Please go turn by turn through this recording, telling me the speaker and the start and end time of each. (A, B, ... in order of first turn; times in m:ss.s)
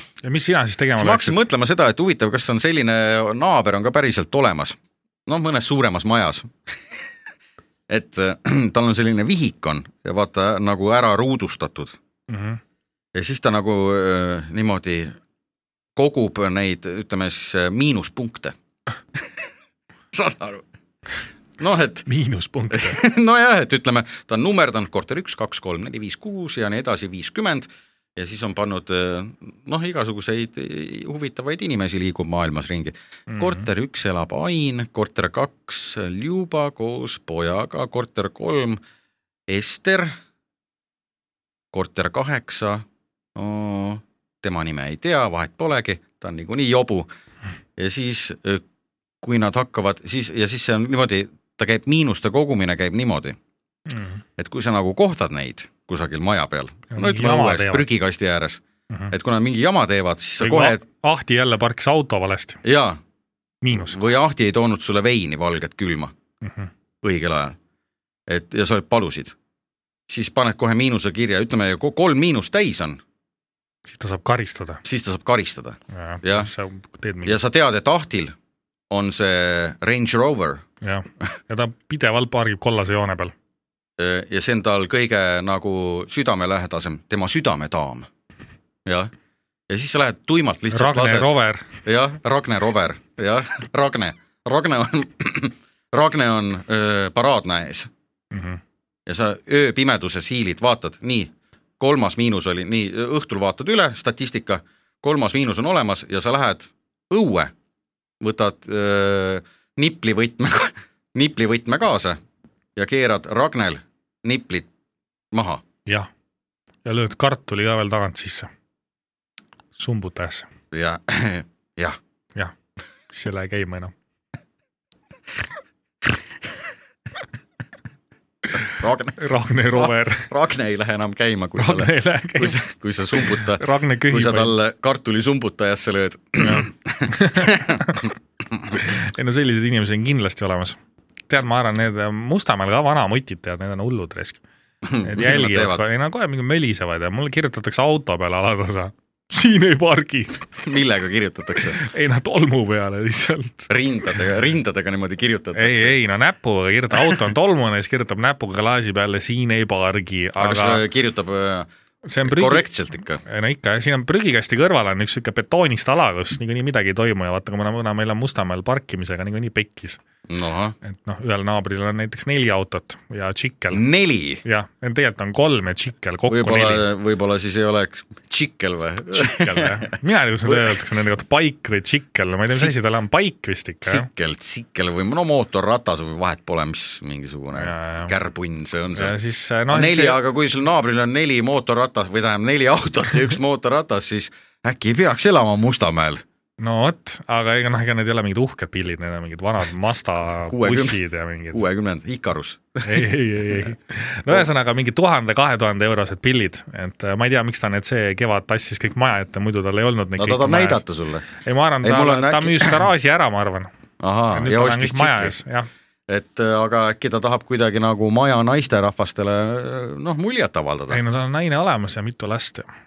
0:00.2-0:01.4 A
0:01.0-0:06.5 B
0:07.9-0:12.0 B
0:12.3-0:12.6 A
0:13.1-0:15.1 B
0:16.0-0:18.5 B
0:20.1-0:20.6 B
0:21.6-0:22.0 B
0:22.1-0:23.0 A
0:22.7-0:38.8 B
0:33.3-0:33.6 A
0:39.5-0:40.1 B
0:41.7-0:47.1 B
0:47.8-0:48.6 B
0:49.2-0:53.4 B
0:53.9-0:54.2 A
0:54.4-1:00.8 B
0:56.9-0:57.8 A
1:00.4-1:02.6 A
1:02.6-1:03.0 B
1:03.6-1:04.0 A
1:03.7-1:06.1 B
1:06.4-1:06.7 A
1:07.0-1:07.6 B
1:08.3-1:09.3 B
1:10.1-1:13.0 B
1:13.9-1:14.8 A
1:14.8-1:16.5 B
1:15.9-1:17.4 A
1:17.2-1:18.3 B
1:18.9-1:20.6 B
1:20.8-1:23.3 A
1:24.0-1:28.1 B
1:28.8-1:29.1 B
1:29.7-1:31.3 B
1:30.7-1:31.7 A
1:31.8-1:37.9 B
1:38.3-1:38.6 A
1:39.0-1:47.5 B
1:48.2-1:52.2 B
1:52.8-1:54.7 B
1:55.3-1:55.6 B
1:56.8-1:58.5 A
1:59.8-2:00.5 A
2:00.7-2:02.0 B
2:03.1-2:03.9 A
2:08.7-2:09.2 B
2:09.2-2:10.3 A
2:09.8-2:18.0 B
2:11.6-2:12.6 A
2:13.1-2:14.5 A
2:16.4-2:18.1 A
2:18.7-2:20.8 A
2:21.3-2:24.4 A
2:24.8-2:25.8 B
2:25.0-2:30.4 A
2:30.6-2:31.8 B
2:31.7-2:33.7 A
2:33.7-2:36.0 B
2:35.5-2:40.8 A
2:40.4-2:41.7 B
2:42.1-2:42.7 A
2:42.2-2:43.2 B
2:43.2-2:50.0 A
2:50.3-2:50.7 B
2:50.8-2:53.8 A
2:53.7-2:54.4 B
2:54.4-2:56.9 A
2:56.3-3:00.8 B
2:59.1-3:04.1 A
3:03.8-3:09.2 B
3:07.6-3:08.1 A
3:08.9-3:10.2 A
3:09.7-3:16.2 B
3:16.6-3:21.7 A
3:20.5-3:21.0 B
3:21.5-3:23.1 B
3:22.8-3:30.8 A
3:30.2-3:31.3 B
3:31.3-3:33.7 A
3:31.8-3:32.8 B
3:34.0-3:35.4 B
3:34.3-3:35.7 A
3:36.1-3:41.0 B
3:40.9-3:42.7 A